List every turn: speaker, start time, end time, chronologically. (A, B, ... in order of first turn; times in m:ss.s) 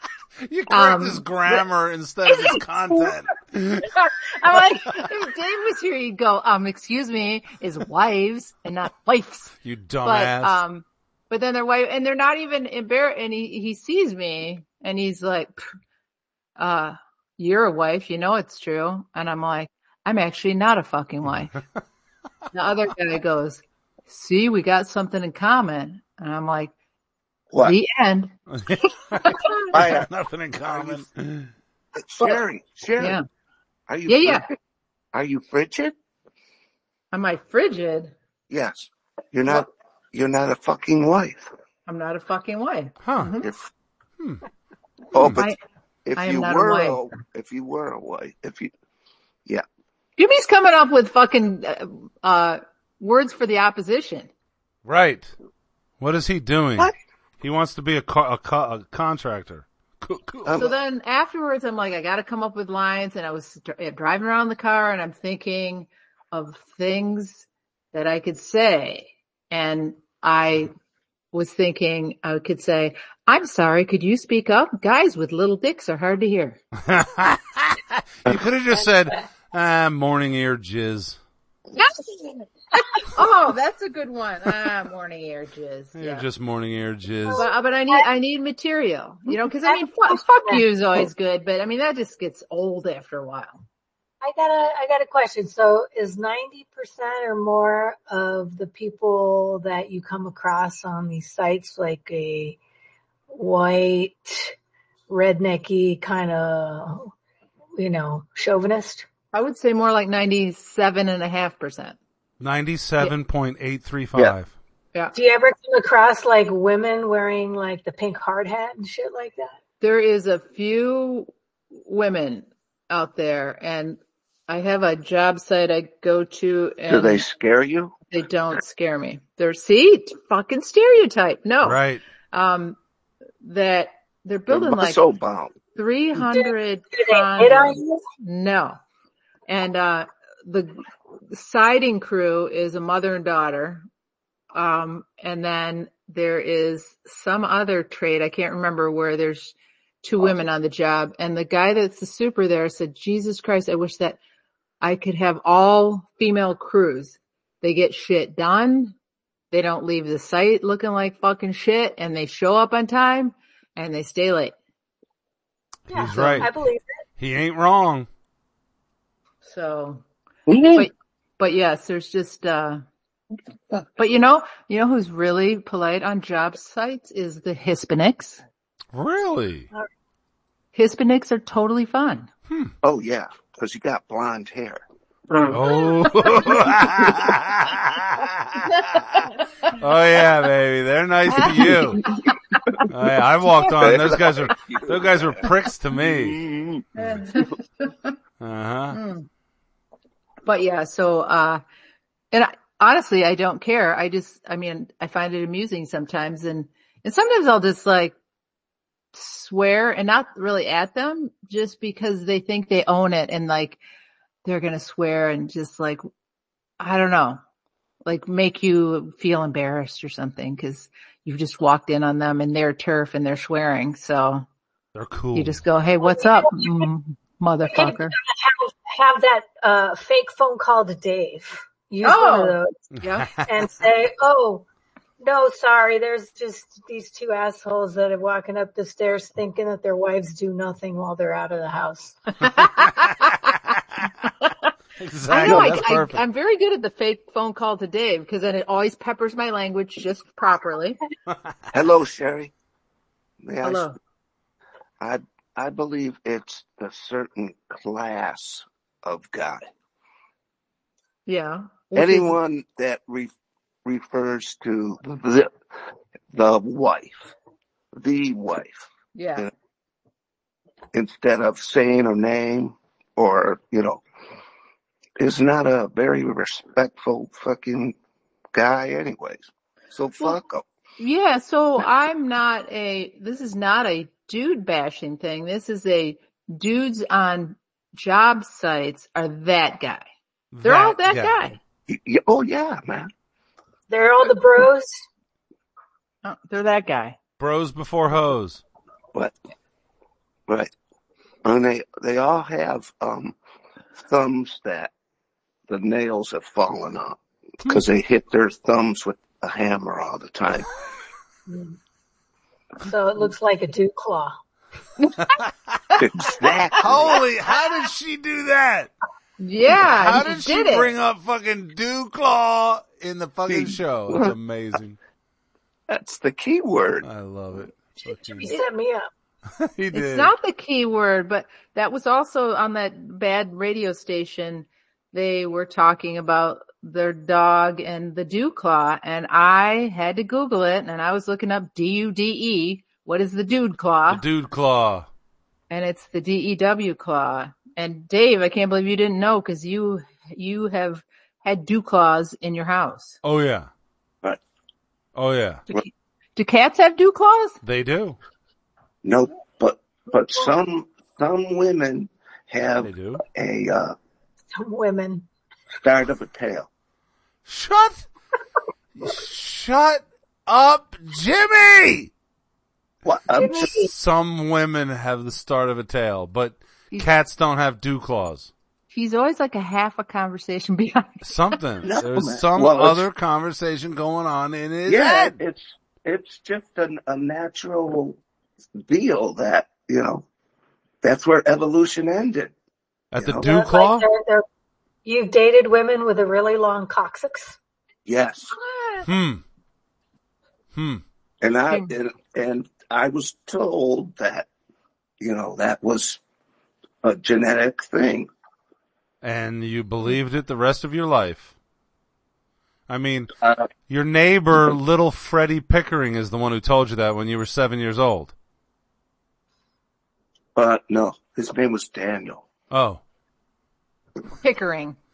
0:00.4-0:03.9 A
0:00.7-0:01.6 B
0:02.3-0:03.1 B
0:04.0-0:15.6 B
0:09.6-0:10.6 A
0:16.6-0:21.5 B
0:22.5-0:26.7 B
0:27.6-0:28.3 B
0:28.5-0:31.5 A
0:29.2-0:29.6 B
0:29.7-0:30.1 C
0:30.7-0:31.0 C
0:32.0-0:33.2 C
0:33.0-0:33.2 B
0:33.9-0:34.4 C
0:34.1-0:34.4 B
0:35.1-0:35.9 C
0:37.1-0:38.1 B
0:38.5-0:41.5 C
0:41.9-0:43.5 B
0:43.0-0:43.3 A
0:43.4-0:43.7 C
0:45.1-0:45.5 C
0:45.2-0:45.4 A
0:46.0-0:48.7 C
0:46.2-0:47.0 B
0:50.2-0:54.3 B
0:54.8-0:55.3 A
0:56.0-1:00.6 A
1:00.4-1:00.7 C
1:00.6-1:10.7 B
1:11.3-1:16.6 B
1:16.8-1:21.2 A
1:21.8-1:26.3 B
1:25.9-1:27.5 A
1:27.3-1:28.0 D
1:27.4-1:33.6 B
1:29.6-1:30.6 D
1:34.2-1:42.6 D
1:43.3-1:44.5 D
1:45.1-1:47.1 D
1:47.8-1:49.0 D
1:49.3-1:52.0 B
1:52.4-1:54.5 A
1:55.1-1:59.6 D
1:59.8-2:07.2 B
2:06.9-2:07.9 C
2:08.1-2:11.8 B
2:11.6-2:12.0 A
2:12.3-2:12.8 B
2:13.4-2:15.0 B
2:14.5-2:15.5 C
2:15.7-2:18.8 B
2:16.3-2:18.0 D
2:19.5-2:20.8 B
2:21.3-2:23.8 B
2:24.5-2:34.2 B
2:34.8-2:38.9 B
2:39.5-2:44.5 B
2:45.9-2:46.5 A
2:45.9-2:46.8 D
2:46.1-2:46.5 B
2:47.2-2:48.1 A
2:49.4-2:50.0 B
2:50.5-2:50.9 C
2:50.7-2:52.8 B
2:54.0-2:58.4 B
2:58.9-2:59.7 A
3:00.7-3:02.3 B
3:02.8-3:04.8 C
3:05.5-3:12.0 A
3:11.4-3:12.3 B
3:12.9-3:16.4 A
3:13.6-3:17.4 C
3:17.0-3:17.2 A
3:17.0-3:18.1 B
3:18.4-3:19.0 A
3:18.9-3:19.2 B
3:20.4-3:21.6 B
3:22.3-3:28.1 B
3:29.1-3:33.8 B
3:34.4-3:36.0 B
3:36.8-3:37.4 B
3:38.0-3:44.4 B
3:44.9-3:45.6 A
3:45.3-3:48.1 B
3:46.0-3:46.9 D
3:47.7-3:52.8 D
3:52.0-3:53.3 B
3:53.0-3:53.5 A
3:53.4-3:54.6 D
3:55.2-4:02.6 D
4:02.4-4:03.5 B
4:04.4-4:04.7 B
4:05.0-4:06.2 A
4:05.3-4:11.0 B
4:11.7-4:12.5 C
4:13.4-4:13.9 C
4:13.6-4:14.0 B
4:15.0-4:19.6 C
4:21.2-4:22.4 B
4:21.9-4:23.3 C
4:23.8-4:25.5 C
4:26.3-4:27.3 C
4:27.9-4:29.5 C
4:29.1-4:29.5 B
4:30.9-4:34.0 C
4:35.2-4:37.9 C
4:38.5-4:40.6 C
4:41.0-4:50.0 B
4:50.5-4:51.4 A
4:50.6-4:51.6 B
4:51.9-4:53.1 C
4:53.9-4:55.0 D
4:56.2-4:57.2 B
4:57.4-4:58.6 A
5:01.4-5:03.4 C
5:04.0-5:04.9 C
5:05.7-5:10.7 C
5:11.5-5:11.8 D
5:12.8-5:14.3 D
5:16.0-5:17.2 C
5:16.8-5:18.9 A
5:19.4-5:20.9 B
5:19.8-5:25.0 A
5:23.5-5:24.3 C
5:25.9-5:27.0 C
5:27.0-5:28.6 A
5:28.3-5:29.0 D
5:29.6-5:30.3 A
5:29.9-5:44.2 B
5:44.1-5:45.1 A
5:45.7-5:53.2 B
5:53.2-5:53.7 A
5:55.2-5:55.6 A
5:55.7-5:57.6 B
5:57.6-5:58.2 A
5:59.0-6:03.9 C
6:02.8-6:03.2 A
6:04.5-6:05.2 D
6:05.8-6:06.7 C
6:07.4-6:08.0 A
6:09.0-6:12.1 A
6:13.0-6:13.8 C
6:13.3-6:13.9 D
6:13.8-6:18.5 A
6:18.9-6:21.3 B
6:21.2-6:25.4 A
6:21.8-6:23.0 C
6:24.8-6:28.2 C
6:28.8-6:30.2 C
6:31.0-6:32.5 C
6:33.1-6:34.0 A
6:33.1-6:33.5 C
6:33.4-6:34.4 D
6:35.0-6:37.6 D
6:38.0-6:38.5 C
6:38.5-6:39.1 B
6:39.0-6:39.4 A
6:40.7-6:41.0 A
6:41.4-6:44.5 C
6:45.2-6:46.2 C
6:47.0-6:48.3 C
6:49.2-6:51.5 A
6:52.9-6:53.3 A
6:53.9-6:58.3 A
7:00.6-7:02.4 C
7:02.7-7:03.0 A
7:04.4-7:05.0 B